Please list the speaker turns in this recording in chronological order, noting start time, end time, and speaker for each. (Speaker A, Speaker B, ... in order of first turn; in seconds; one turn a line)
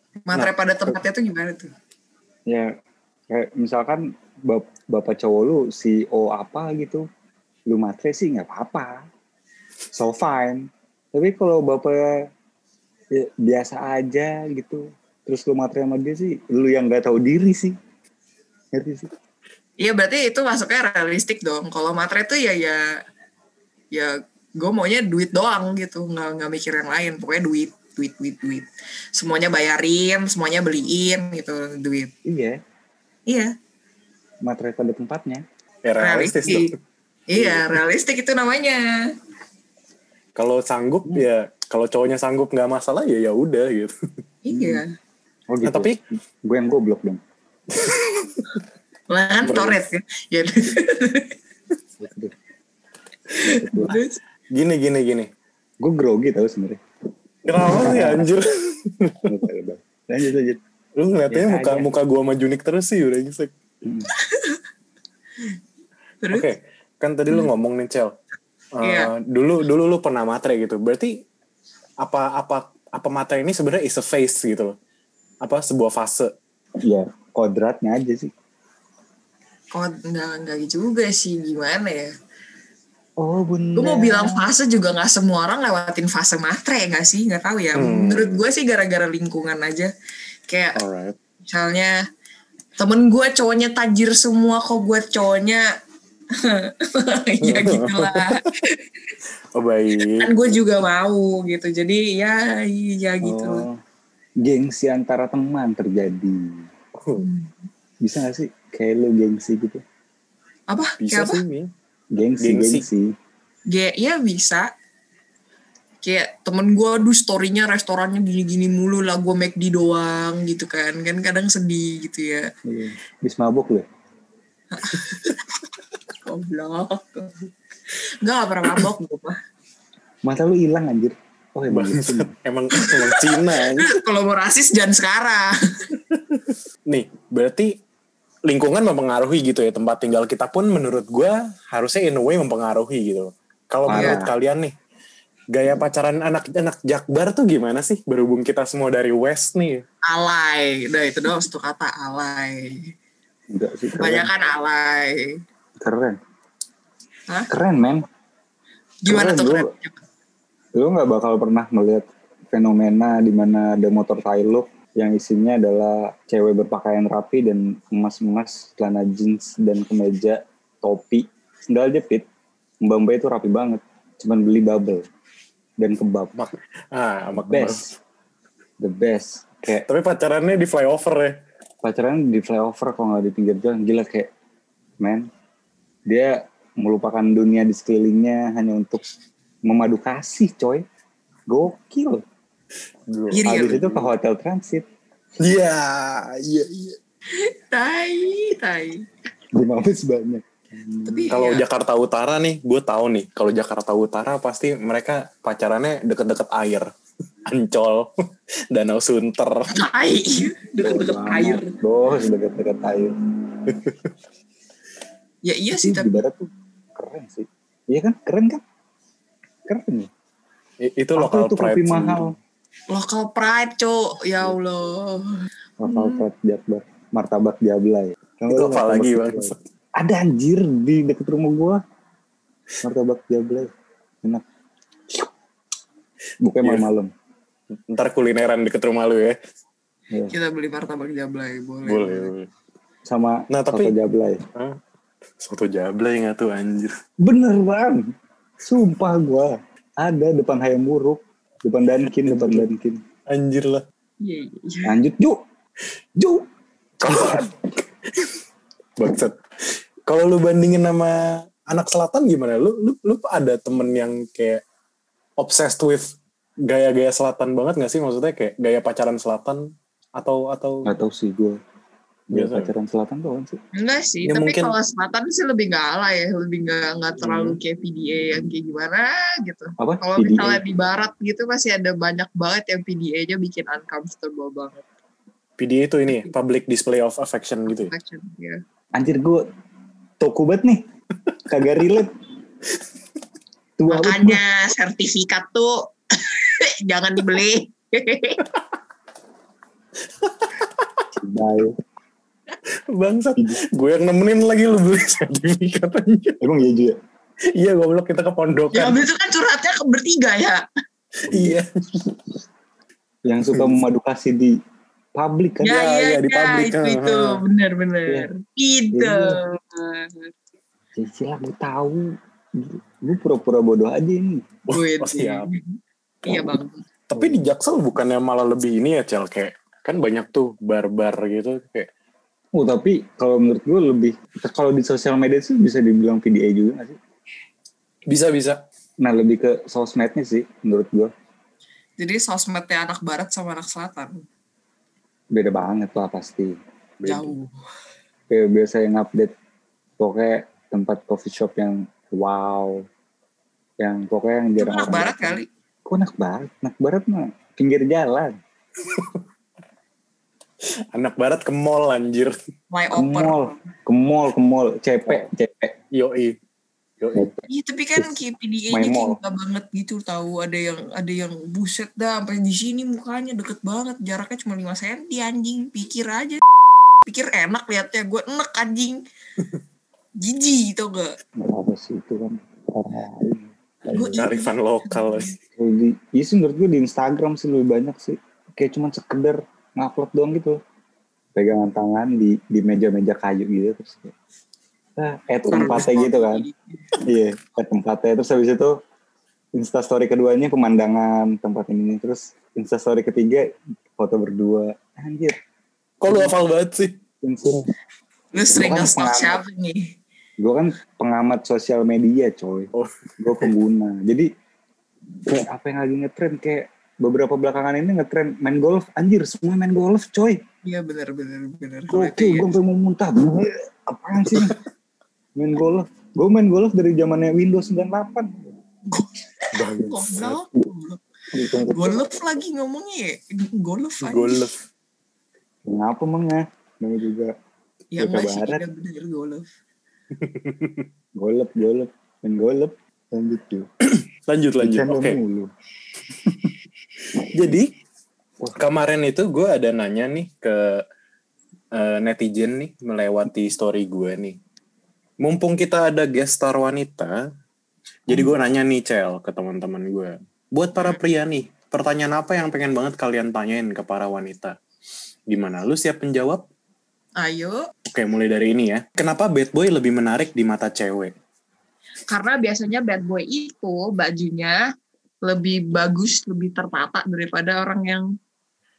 Speaker A: 0.3-1.7
Speaker B: 3.3-7.0
Speaker B: 7.7-9.1
Speaker B: 9.9-12.3
Speaker B: 13.1-17.8
Speaker B: 18.7-19.1
Speaker A: 19.8-22.9
Speaker A: 23.9-32.1
Speaker B: 32.2-32.6
Speaker A: 33.3-33.5
Speaker B: 34.4-35.4
Speaker C: 35.8-36.7
Speaker A: 36.0-36.7
Speaker A: 37.3-39.1
Speaker C: 40.4-43.9
Speaker A: 44.4-44.9
Speaker B: 44.5-44.8
Speaker B: 45.5-47.2
Speaker C: 45.6-46.0
Speaker C: 47.8-48.4
Speaker A: 49.1-51.3
Speaker C: 49.4-49.8
Speaker B: 52.0-52.3
Speaker B: 53.4-54.0
Speaker A: 53.6-54.2
Speaker C: 54.5-55.3
Speaker B: 55.8-56.8
Speaker C: 57.5-59.3
Speaker B: 57.5-58.3
Speaker B: 59.2-60.6
Speaker C: 61.0-63.5
Speaker B: 61.3-61.9
Speaker B: 63.8-64.1
Speaker A: 64.2-64.6
Speaker C: 66.3-68.1
Speaker C: 68.7-71.2
Speaker A: 68.8-69.1
Speaker C: 72.0-74.7
Speaker C: 75.4-76.3
Speaker B: 76.8-78.3
Speaker A: 79.7-82.1
Speaker B: 83.2-84.5
Speaker A: 83.8-89.9
Speaker C: 87.7-88.4
Speaker A: 90.5-90.8
Speaker C: 90.8-91.2
Speaker A: 91.5-92.0
Speaker A: 92.8-95.7
Speaker A: 96.4-98.8
Speaker C: 97.4-98.4
Speaker C: 99.5-100.3
Speaker A: 100.0-103.7
Speaker B: 103.2-103.8
Speaker B: 104.4-106.7
Speaker C: 107.0-107.2
Speaker A: 107.2-107.5
Speaker B: 108.0-109.8
Speaker A: 110.7-111.4
Speaker C: 111.0-111.7
Speaker B: 112.1-113.1
Speaker C: 112.4-112.9
Speaker A: 113.7-114.7
Speaker A: 116.0-122.5
Speaker B: 122.6-123.9
Speaker A: 124.7-125.4
Speaker A: 126.2-127.3
Speaker A: 128.2-129.4
Speaker B: 130.2-132.3
Speaker C: 131.7-133.9
Speaker A: 132.7-135.5
Speaker C: 136.4-137.8
Speaker C: 138.4-144.7
Speaker B: 143.8-144.3
Speaker A: 143.9-144.2
Speaker C: 145.5-149.8
Speaker A: 150.1-152.9
Speaker B: 153.5-154.3
Speaker A: 153.9-155.4
Speaker B: 155.8-156.2
Speaker B: 157.5-158.0
Speaker A: 159.0-159.9
Speaker B: 159.1-159.7
Speaker B: 160.7-172.2
Speaker B: 172.8-175.1
Speaker B: 175.8-176.3
Speaker C: 176.3-177.9
Speaker B: 177.3-177.8
Speaker B: 178.8-179.9
Speaker C: 179.7-181.4
Speaker B: 181.8-184.3
Speaker B: 185.0-185.3
Speaker B: 186.1-189.0
Speaker B: 189.6-190.8
Speaker B: 191.5-192.2
Speaker C: 193.1-194.1
Speaker A: 193.3-193.8
Speaker B: 193.4-194.8
Speaker C: 195.4-197.0
Speaker A: 197.3-199.0
Speaker B: 199.5-201.3
Speaker A: 201.0-201.6
Speaker C: 201.3-206.9
Speaker C: 207.4-208.1
Speaker C: 208.7-209.7
Speaker A: 209.7-211.7
Speaker B: 210.8-213.2
Speaker C: 213.7-214.0
Speaker A: 215.4-216.2
Speaker B: 215.7-218.6
Speaker B: 219.7-220.1
Speaker C: 220.8-222.3
Speaker B: 221.2-222.4
Speaker A: 222.9-226.2
Speaker B: 225.8-231.8
Speaker C: 228.5-229.6
Speaker B: 232.8-233.7
Speaker B: 236.4-237.1
Speaker C: 237.9-239.4
Speaker A: 240.3-242.3
Speaker C: 241.8-242.5
Speaker B: 243.0-244.4
Speaker C: 243.5-243.9
Speaker C: 245.4-246.9
Speaker B: 247.2-253.0
Speaker C: 252.2-252.7
Speaker C: 253.3-253.8
Speaker A: 254.2-254.9
Speaker B: 254.8-255.4
Speaker B: 256.1-256.5
Speaker B: 257.0-257.5
Speaker C: 257.0-257.5
Speaker C: 259.0-259.4
Speaker C: 260.1-264.6
Speaker C: 265.4-270.9
Speaker B: 270.8-271.6
Speaker B: 272.3-273.6
Speaker C: 272.3-272.7
Speaker A: 273.7-284.8
Speaker C: 274.2-274.7
Speaker C: 277.2-277.6
Speaker B: 279.8-280.6
Speaker C: 285.6-287.9
Speaker A: 287.7-288.6
Speaker B: 288.9-289.4
Speaker B: 290.2-290.9
Speaker B: 291.5-292.1
Speaker B: 293.8-294.4
Speaker A: 293.9-298.4
Speaker C: 300.2-301.1
Speaker B: 301.1-301.8
Speaker C: 302.9-306.4
Speaker B: 306.4-307.0
Speaker C: 307.5-309.0
Speaker A: 308.7-310.6
Speaker C: 311.2-312.1
Speaker B: 311.3-311.6
Speaker B: 313.2-314.6
Speaker C: 313.5-313.8
Speaker B: 315.1-315.8
Speaker A: 315.6-320.3
Speaker C: 315.7-317.4
Speaker B: 318.9-319.4
Speaker B: 320.9-324.5
Speaker C: 324.7-325.5
Speaker A: 324.7-326.9
Speaker C: 327.1-331.9
Speaker B: 327.1-327.4
Speaker B: 332.5-337.0
Speaker C: 338.1-338.6
Speaker B: 339.0-341.1
Speaker A: 342.0-344.2
Speaker B: 345.3-346.6
Speaker C: 347.0-347.3
Speaker A: 347.0-347.5
Speaker B: 348.3-349.3
Speaker B: 350.0-352.9
Speaker B: 353.8-358.4
Speaker A: 354.6-355.5
Speaker C: 358.8-359.2
Speaker C: 360.9-362.4
Speaker A: 362.7-363.6
Speaker B: 362.9-365.8
Speaker C: 365.9-366.4
Speaker C: 367.0-367.3
Speaker B: 367.1-367.4
Speaker A: 367.5-376.4
Speaker B: 368.7-369.2
Speaker A: 377.1-379.0
Speaker A: 380.2-381.1
Speaker B: 381.4-384.2
Speaker A: 383.9-385.3
Speaker C: 384.0-385.3
Speaker B: 385.6-390.6
Speaker B: 391.3-394.1
Speaker B: 395.0-396.4
Speaker A: 395.5-396.8
Speaker B: 397.0-398.8
Speaker B: 399.5-405.4
Speaker C: 406.0-407.0
Speaker B: 406.1-406.3
Speaker B: 407.2-407.7
Speaker A: 408.3-409.9
Speaker B: 408.5-409.4
Speaker B: 410.4-414.3
Speaker C: 412.7-413.5
Speaker B: 415.2-420.4
Speaker A: 420.6-422.5
Speaker B: 421.9-424.6
Speaker B: 425.4-428.5
Speaker C: 429.5-430.4
Speaker A: 429.7-431.0
Speaker B: 431.3-432.0
Speaker A: 431.7-434.5
Speaker C: 434.0-434.6
Speaker B: 435.6-437.3
Speaker A: 437.9-439.4
Speaker B: 438.0-438.6
Speaker C: 440.1-440.9
Speaker B: 441.1-443.7
Speaker C: 443.9-445.2
Speaker B: 444.6-445.5
Speaker B: 446.2-446.5
Speaker C: 447.1-447.7
Speaker C: 448.6-450.8
Speaker C: 451.7-454.4
Speaker C: 455.2-457.2
Speaker C: 458.1-464.6
Speaker B: 458.1-458.3
Speaker C: 465.3-466.4
Speaker A: 467.2-467.6
Speaker C: 467.9-471.1
Speaker A: 472.1-474.6
Speaker A: 475.2-478.1